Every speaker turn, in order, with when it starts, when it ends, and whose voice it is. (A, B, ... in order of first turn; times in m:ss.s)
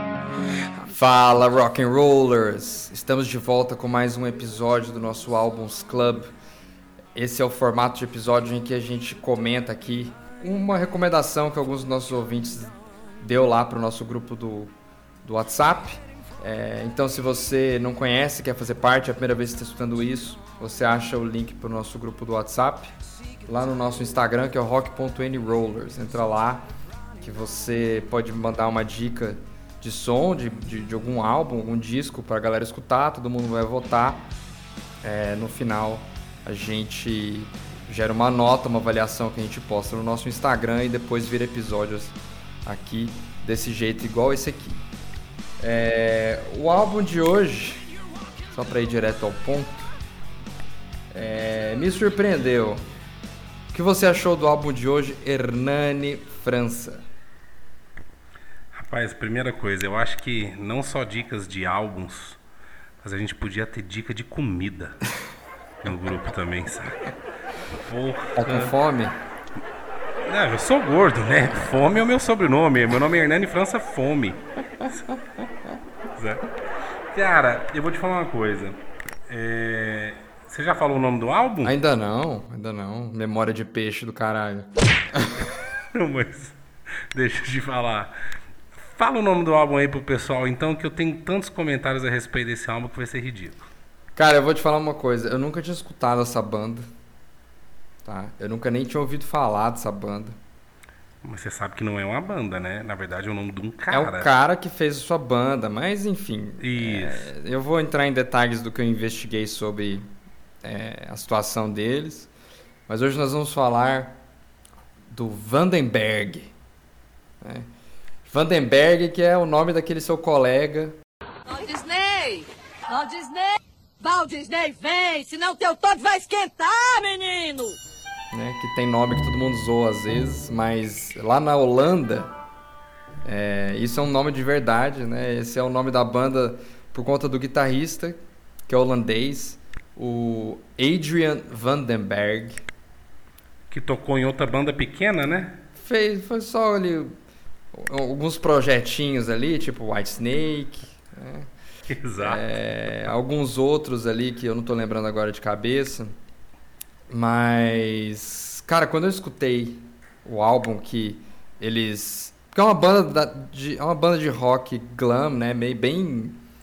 0:00.9-0:06.3 A
0:07.2-0:14.7 A
0:15.2-0:22.9 A
0:23.5-0:26.7 A
0:27.2-0:34.3 A
0:35.0-0:44.9 A
0:45.6-0:47.9 A
0:48.5-0:49.9 A
0:51.1-0:52.9 A
0:53.7-0:57.1 A
0:58.7-1:02.4 B
1:03.0-1:05.0 B
1:05.8-1:07.1 B
1:07.8-1:08.7 B
1:08.4-1:09.2 A
1:10.2-1:15.0 B
1:16.2-1:16.5 B
1:17.1-1:21.8 B
1:21.6-1:25.5 A
1:25.9-1:28.1 B
1:28.8-1:33.7 B
1:34.2-1:36.9 A
1:38.0-1:40.4 A
1:41.2-1:44.3 B
1:43.9-1:50.1 A
1:46.6-1:47.3 B
1:50.6-1:52.3 A
1:52.9-1:54.2 A
1:55.1-1:56.5 A
1:57.4-1:57.7 A
1:58.3-2:01.0 A
2:01.5-2:07.8 C
2:08.3-2:12.3 A
2:13.2-2:22.6 A
2:23.7-2:25.6 B
2:25.8-2:27.1 A
2:27.7-2:31.5 A
2:31.9-2:32.4 B
2:32.2-2:36.1 A
2:37.1-2:46.4 A